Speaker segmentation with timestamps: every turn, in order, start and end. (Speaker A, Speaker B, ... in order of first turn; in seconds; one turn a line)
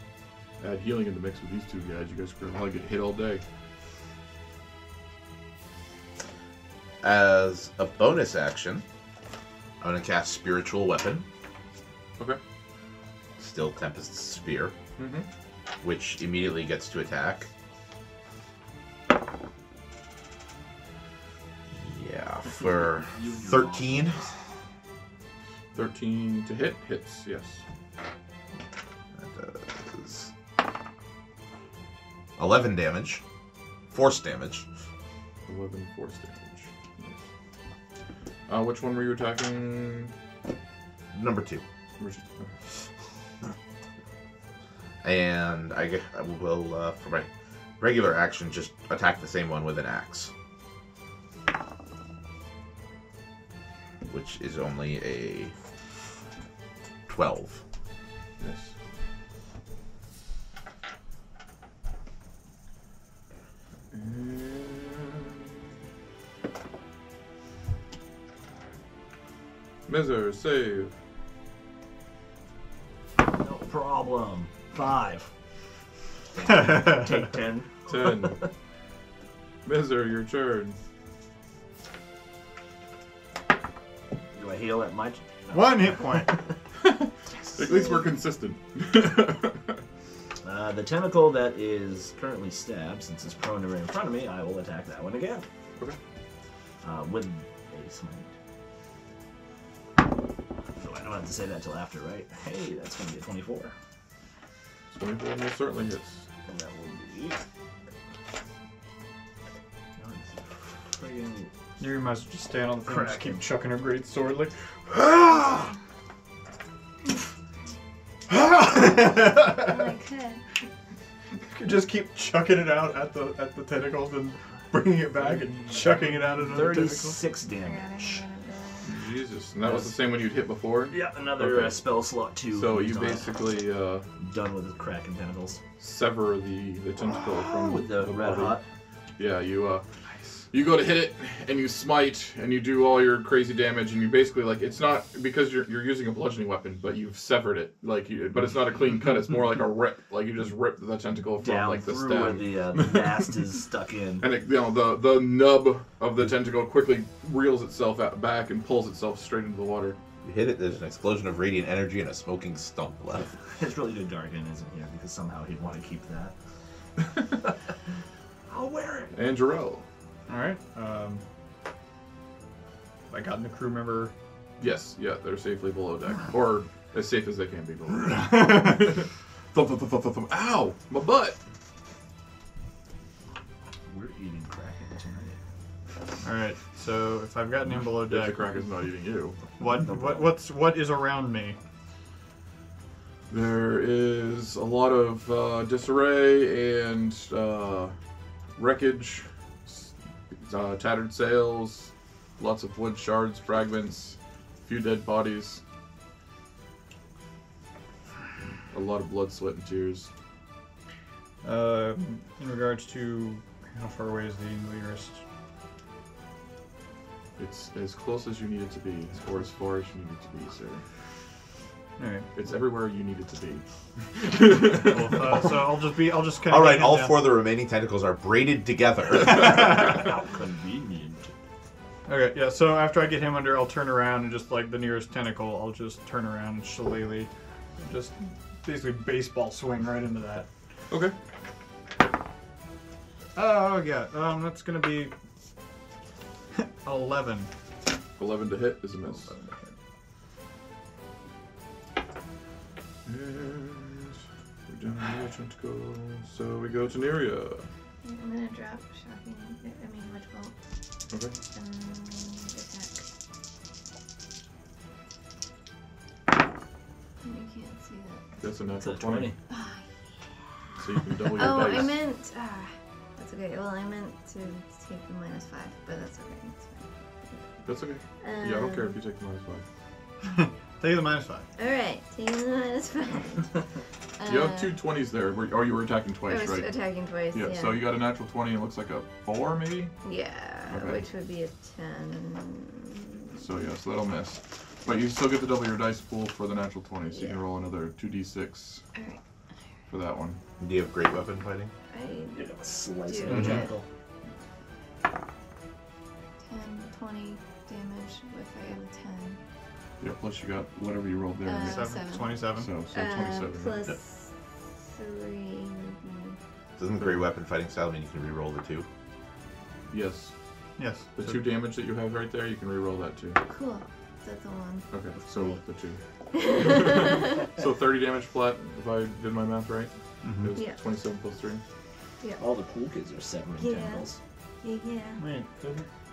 Speaker A: 0.6-3.4
Speaker B: 7.0-8.8
Speaker B: 9.8-11.3
Speaker B: 13.4-14.8
Speaker A: 15.0-15.3
Speaker B: 15.8-17.5
Speaker B: 21.7-24.2
Speaker C: 22.5-24.3
Speaker A: 25.7-27.6
Speaker B: 29.1-30.3
Speaker B: 32.4-33.2
Speaker B: 33.9-34.7
Speaker A: 35.5-37.2
Speaker A: 38.5-40.1
Speaker B: 41.1-41.6
Speaker A: 42.0-42.5
Speaker B: 45.0-47.3
Speaker B: 47.8-50.3
Speaker B: 54.1-55.5
Speaker B: 57.1-57.6
Speaker A: 58.4-58.7
Speaker A: 63.9-65.5
Speaker A: 69.9-70.9
Speaker C: 73.3-75.3
Speaker C: 76.3-78.3
Speaker D: 76.5-77.0
Speaker A: 77.9-78.5
Speaker A: 79.7-80.8
Speaker C: 84.3-86.4
Speaker D: 85.5-86.4
Speaker A: 86.8-89.8
Speaker E: 87.6-88.1
Speaker C: 90.4-95.5
Speaker C: 96.8-98.3
Speaker C: 100.8-103.7
Speaker A: 104.9-106.2
Speaker C: 106.5-107.4
Speaker C: 110.0-111.5
Speaker D: 111.8-115.7
Speaker C: 112.8-113.5
Speaker D: 118.3-119.9
Speaker E: 119.4-120.4
Speaker D: 121.5-127.2
Speaker C: 126.4-128.2
Speaker E: 127.6-128.9
Speaker A: 128.8-131.8
Speaker C: 129.6-130.1
Speaker C: 130.9-133.3
Speaker A: 132.5-134.1
Speaker C: 134.2-135.6
Speaker A: 135.8-138.6
Speaker C: 137.0-138.6
Speaker A: 139.2-139.8
Speaker A: 140.5-153.3
Speaker C: 151.4-154.2
Speaker A: 154.2-160.0
Speaker B: 160.2-163.3
Speaker C: 163.5-166.3
Speaker A: 167.0-167.3
Speaker C: 168.5-169.2
Speaker A: 169.1-169.8
Speaker D: 170.3-171.2
Speaker D: 173.1-174.1
Speaker A: 174.6-181.4
Speaker D: 178.1-178.8
Speaker C: 183.9-185.4
Speaker D: 186.2-188.5
Speaker A: 187.9-189.4
Speaker D: 189.6-191.6
Speaker C: 189.6-190.3
Speaker A: 193.3-197.9
Speaker A: 198.6-205.6
Speaker A: 208.7-210.1
Speaker D: 211.4-215.2
Speaker A: 217.4-220.8
Speaker D: 222.0-222.3
Speaker A: 222.3-225.5
Speaker D: 224.6-227.3
Speaker B: 226.5-230.0
Speaker C: 229.2-231.3
Speaker D: 229.4-229.9
Speaker D: 232.1-237.3
Speaker D: 237.8-240.5
Speaker A: 240.9-241.2
Speaker D: 243.4-245.1
Speaker D: 246.6-247.5
Speaker A: 248.2-249.3
Speaker D: 249.2-249.7
Speaker A: 253.1-257.7
Speaker E: 258.0-260.6
Speaker A: 261.1-261.4
Speaker E: 261.5-263.0
Speaker E: 267.2-268.2
Speaker A: 268.4-269.3
Speaker C: 268.8-269.4
Speaker E: 269.5-269.8
Speaker A: 270.8-272.1
Speaker E: 271.2-277.4
Speaker A: 277.6-279.6
Speaker E: 278.2-279.0
Speaker D: 280.3-281.5
Speaker E: 281.6-283.6
Speaker E: 284.2-284.8
Speaker A: 284.2-286.8
Speaker E: 286.3-287.9
Speaker A: 287.3-289.9
Speaker E: 290.0-293.4
Speaker A: 290.7-291.1
Speaker A: 293.4-298.8
Speaker E: 297.1-297.4
Speaker E: 298.9-299.2
Speaker A: 299.9-300.4
Speaker B: 300.6-301.7
Speaker E: 301.9-303.8
Speaker C: 302.3-303.9
Speaker D: 303.3-303.6
Speaker A: 303.3-303.6
Speaker E: 306.4-309.4
Speaker A: 310.0-312.0
Speaker E: 311.4-316.4
Speaker D: 311.6-312.7
Speaker A: 312.5-314.0
Speaker B: 316.8-318.9
Speaker A: 319.9-320.3
Speaker D: 320.8-321.4
Speaker A: 321.2-323.4
Speaker E: 323.5-324.9
Speaker A: 324.9-331.6
Speaker E: 326.3-327.5
Speaker D: 330.2-330.6
Speaker C: 332.4-334.2
Speaker E: 333.6-334.1
Speaker E: 334.6-335.2
Speaker D: 335.2-335.9